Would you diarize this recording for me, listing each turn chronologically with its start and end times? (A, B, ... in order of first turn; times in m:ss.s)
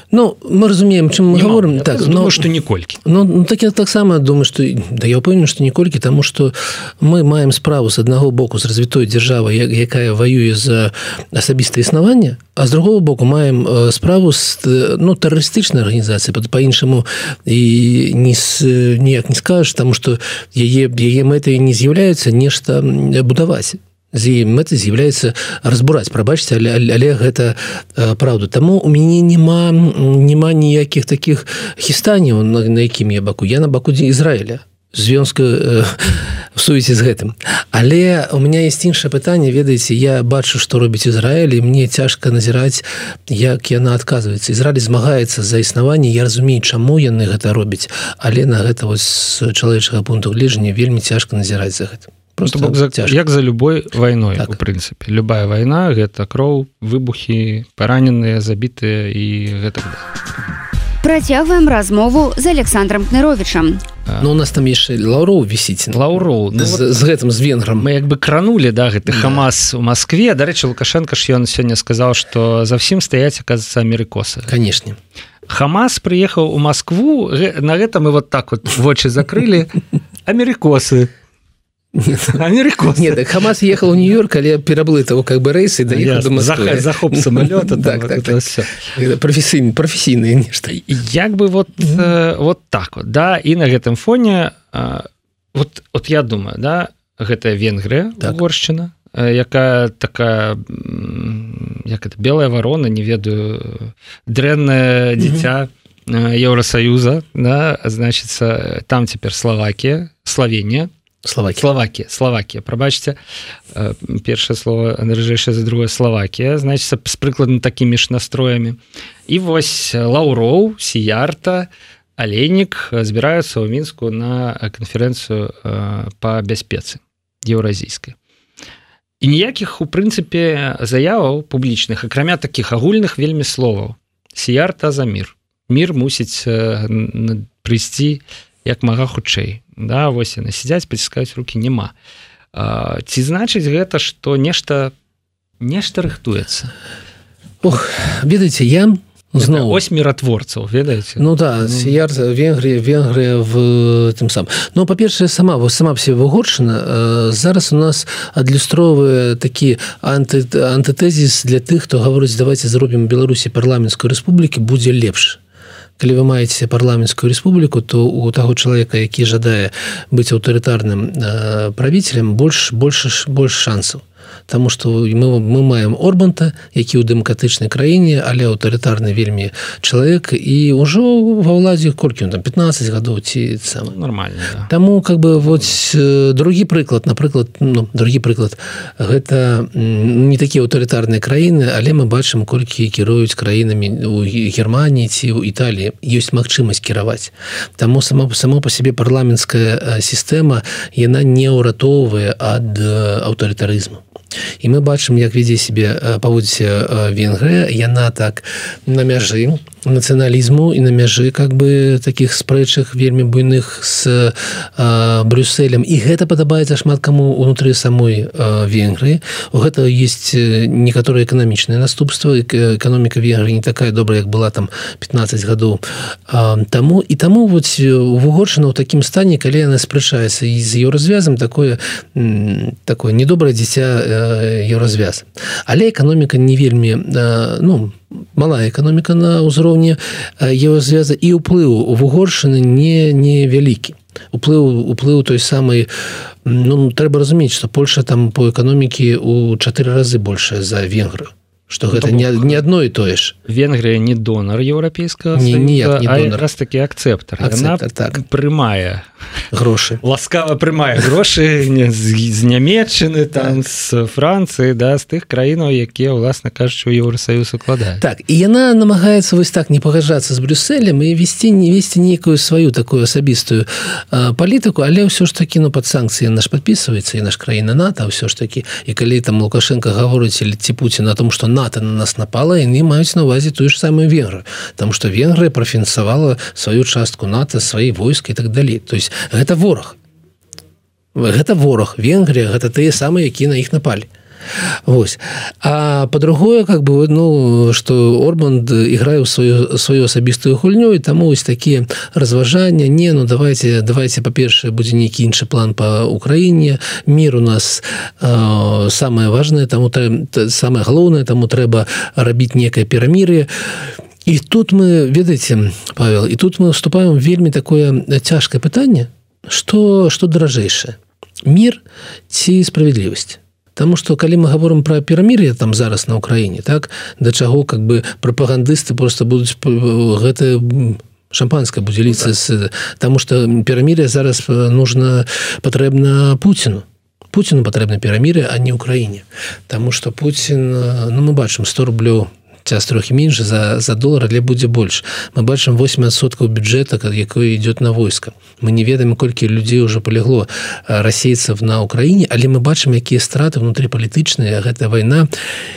0:00.1-0:02.5 A
0:01.3-0:03.0 B
0:03.0-0:53.1 A
0:52.4-1:00.0 B
1:01.0-1:03.8 C
1:04.2-1:07.9 A
1:05.9-1:06.9 B
1:07.8-1:14.5 B
1:09.1-1:09.5 A
1:14.5-1:15.0 A
1:15.5-1:19.8 B
1:20.2-1:21.1 B
1:22.0-1:22.4 A
1:22.2-1:23.3 B
1:22.9-1:30.8 A
1:25.9-1:28.9 B
1:30.7-1:50.9 B
1:45.2-1:45.5 A
1:51.2-1:51.6 A
1:51.5-1:53.2 B
1:53.7-2:08.2 B
2:09.2-2:21.9 B
2:22.5-2:24.9 B
2:25.6-2:26.7 B
2:27.6-2:29.8 A
2:29.4-2:31.9 B
2:31.2-2:45.4 A
2:46.0-3:04.0 A
3:03.9-3:04.7 B
3:04.7-3:24.0 A
3:24.6-4:05.9 A
4:06.4-4:13.4 A
4:11.9-4:12.6 B
4:13.5-4:19.1 B
4:15.4-4:16.4 A
4:17.4-4:18.2 A
4:19.5-4:20.0 A
4:20.0-4:28.0 B
4:28.0-4:50.0 A
4:51.1-4:54.1 A
4:54.9-5:13.5 A
5:14.2-5:55.3 A